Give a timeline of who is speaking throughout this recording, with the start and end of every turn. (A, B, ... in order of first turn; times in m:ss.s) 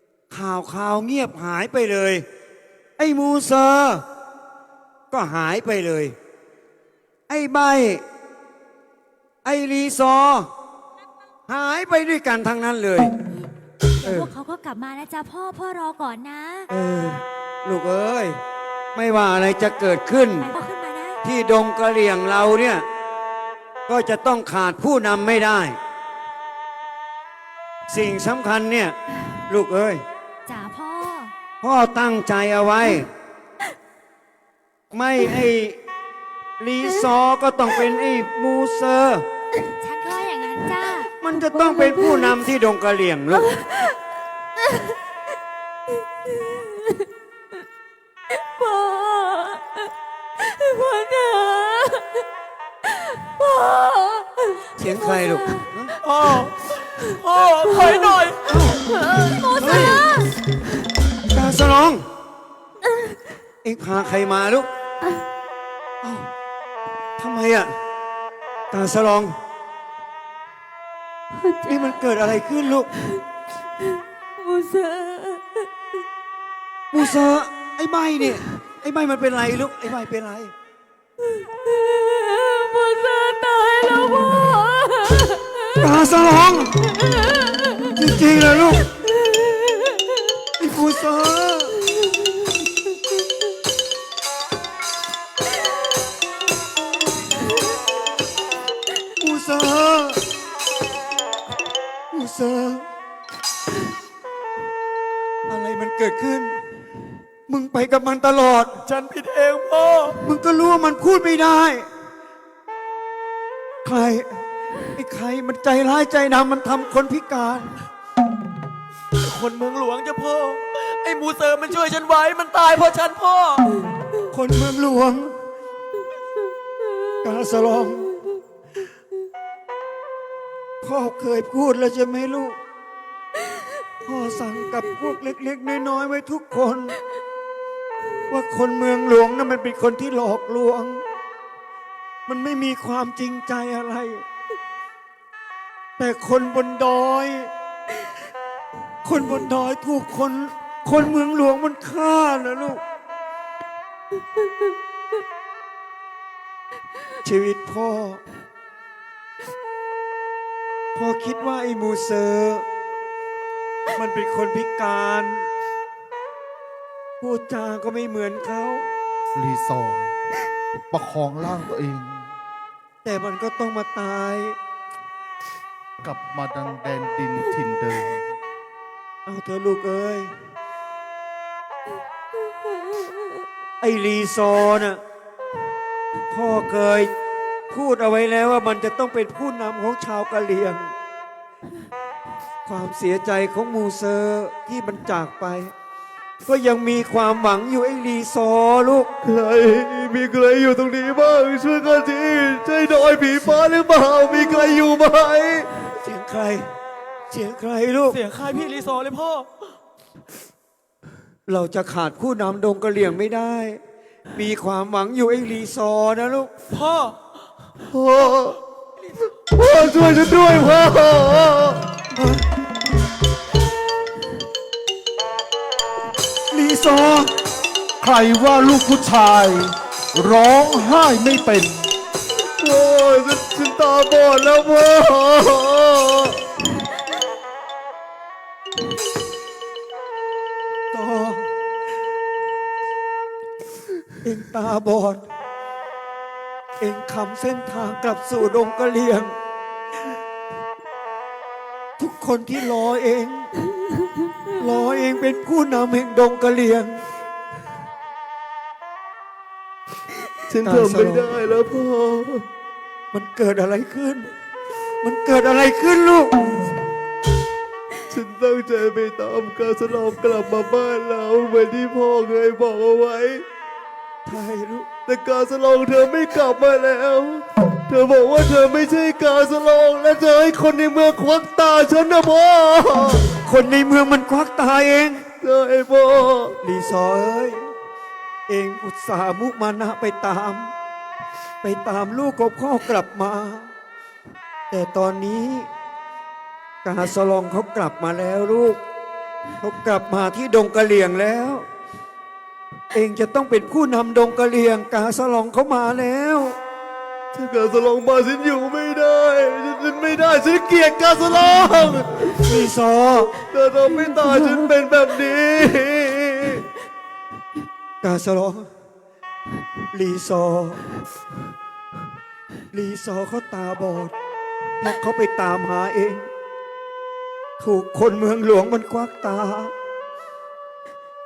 0:00.3-0:02.2 A
0:03.0-0:04.0 A
0:05.1-0:06.1 A
0:07.3-0:08.0 A
0:09.4-0:10.5 A
0:11.5-0:13.1 A
0:14.0-0:14.3 A
0:14.0-0:16.7 B
0:16.7-0:18.4 A
0:18.9-0:20.5 A
0:20.4-0:21.2 B
0:21.2-0:22.8 A
0:23.9-0:25.8 A
0:27.9-0:28.9 A
0:29.5-0:30.0 A
0:30.5-0:31.3 B
0:31.6-0:33.1 A
0:34.9-0:35.8 A
0:36.6-0:39.2 A
0:39.8-0:41.1 B
0:41.1-0:43.5 A
0:41.4-0:42.4 C
0:43.3-0:44.0 C
0:46.2-0:47.1 C
0:48.3-0:52.2 C
0:52.9-0:55.6 C
0:54.8-0:55.9 A
0:56.0-0:58.6 D
0:56.9-1:00.3 C
0:58.5-0:58.8 A
0:59.6-1:00.0 A
1:01.3-1:02.0 A
1:03.6-1:04.7 A
1:06.0-1:06.3 A
1:07.2-1:07.7 A
1:08.7-1:09.4 A
1:11.3-1:12.2 C
1:11.7-1:12.9 A
1:13.8-1:15.7 C
1:16.9-1:20.5 A
1:21.2-1:25.9 C
1:25.8-1:26.8 A
1:26.8-1:28.0 C
1:27.9-1:28.9 A
1:28.9-1:30.3 C
1:30.6-1:31.7 A
1:31.9-1:32.7 C
1:39.2-1:40.2 A
1:42.1-1:42.8 A
1:45.5-1:46.6 A
1:47.5-1:48.8 A
1:48.9-1:50.2 D
1:50.2-1:51.9 A
1:53.8-1:57.8 A
1:59.2-2:03.6 D
2:04.3-2:05.3 A
2:07.2-2:08.1 A
2:10.8-2:12.6 A
2:14.0-2:17.0 A
2:18.3-2:21.0 A
2:22.3-2:24.2 A
2:26.0-2:27.5 A
2:29.0-2:32.8 A
2:37.2-2:38.2 A
2:40.9-2:42.6 A
2:43.9-2:45.5 A
2:47.2-2:48.9 A
2:49.3-2:50.1 E
2:50.9-2:52.3 E
2:53.0-2:54.6 A
2:56.0-2:58.2 E
2:59.2-3:00.3 A
3:02.5-3:03.4 C
3:03.8-3:05.0 A
3:06.3-3:07.1 A
3:07.7-3:10.9 A
3:12.6-3:15.7 A
3:16.4-3:19.1 A
3:19.2-3:25.7 F
3:25.8-3:26.7 A
3:27.3-3:28.2 A
3:28.1-3:29.5 D
3:31.5-3:33.8 A
3:34.3-3:36.5 A
3:36.7-3:37.2 D
3:37.8-3:38.6 F
3:39.5-3:41.8 F
3:42.1-3:42.4 A
3:46.5-3:47.3 A
3:48.0-3:51.8 E
3:52.6-3:56.4 F
4:00.9-4:01.4 A
4:04.2-4:05.2 A
4:06.8-4:09.3 A
4:12.0-4:13.5 A
4:14.0-4:15.0 C
4:14.6-4:17.0 A
4:20.5-4:22.4 F
4:20.6-4:21.3 A
4:23.1-4:24.3 A
4:25.0-4:26.4 A
4:28.1-4:33.4 F
4:34.3-4:34.9 A
4:35.0-4:43.3 F
4:43.4-4:45.2 A
4:45.3-4:46.6 F
4:46.6-4:47.7 A
4:48.5-4:50.7 A
4:51.6-4:53.7 A
4:54.7-4:55.7 A
4:56.8-4:58.8 A
4:59.6-5:01.6 A
5:02.9-5:06.6 A
5:07.3-5:12.6 F
5:12.4-5:13.3 A
5:13.5-5:16.6 F
5:13.9-5:15.4 C
5:18.0-5:18.7 A
5:19.9-5:20.8 A
5:22.7-5:24.1 A
5:24.8-5:26.3 A
5:27.6-5:29.7 A